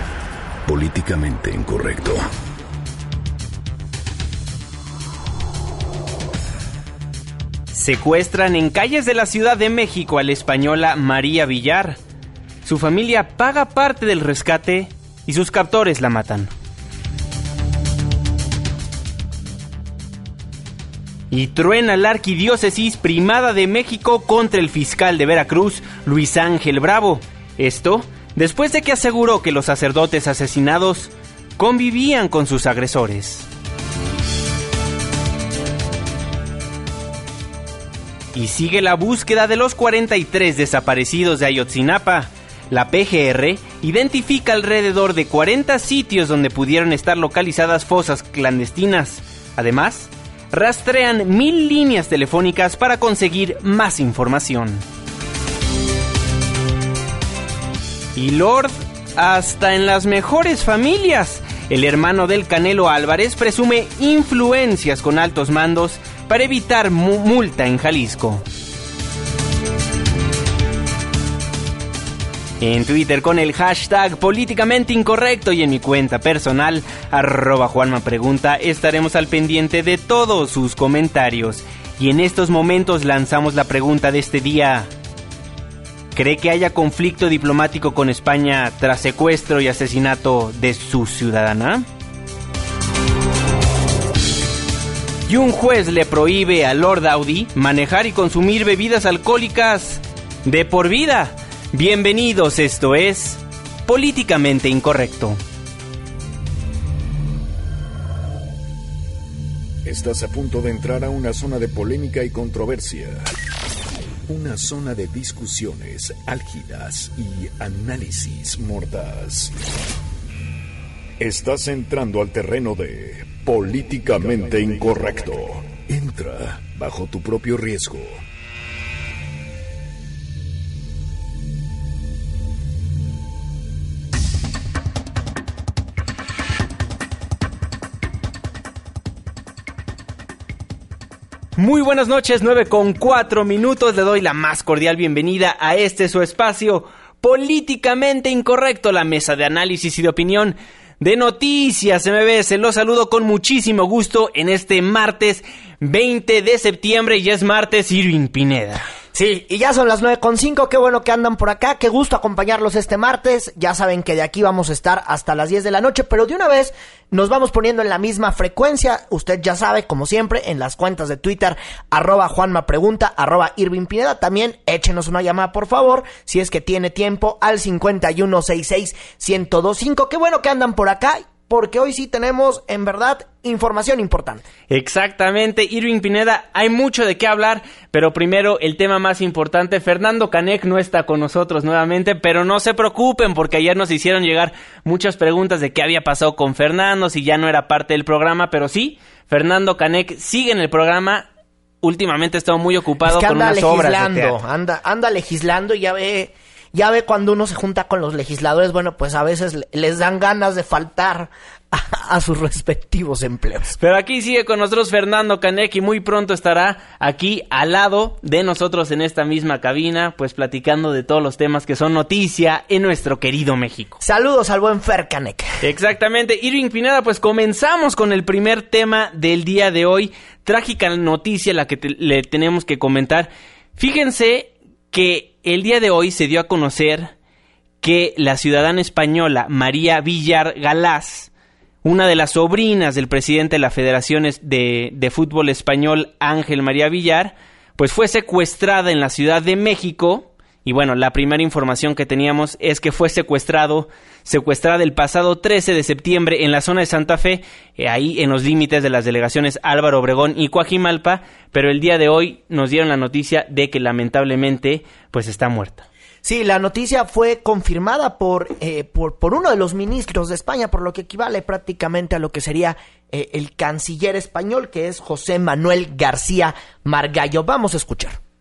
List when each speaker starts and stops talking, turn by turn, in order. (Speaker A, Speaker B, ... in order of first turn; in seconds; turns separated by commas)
Speaker A: 0.7-2.2, Speaker B: 7.7-12.0, Speaker B: 12.6-16.5, Speaker B: 21.3-33.5, Speaker B: 38.3-54.8, Speaker B: 58.1-68.4, Speaker B: 72.6-84.9, Speaker B: 86.1-91.8, Speaker B: 95.3-105.4, Speaker A: 109.8-113.3, Speaker A: 114.3-119.5, Speaker A: 121.2-128.2, Speaker B: 141.6-158.8, Speaker C: 159.1-184.4, Speaker B: 184.7-201.3, Speaker B: 201.8-204.3, Speaker C: 203.0-213.8, Speaker B: 213.8-224.0, Speaker C: 224.0-225.6, Speaker B: 225.6-237.1, Speaker B: 237.8-241.3, Speaker B: 241.8-265.9, Speaker C: 266.2-278.2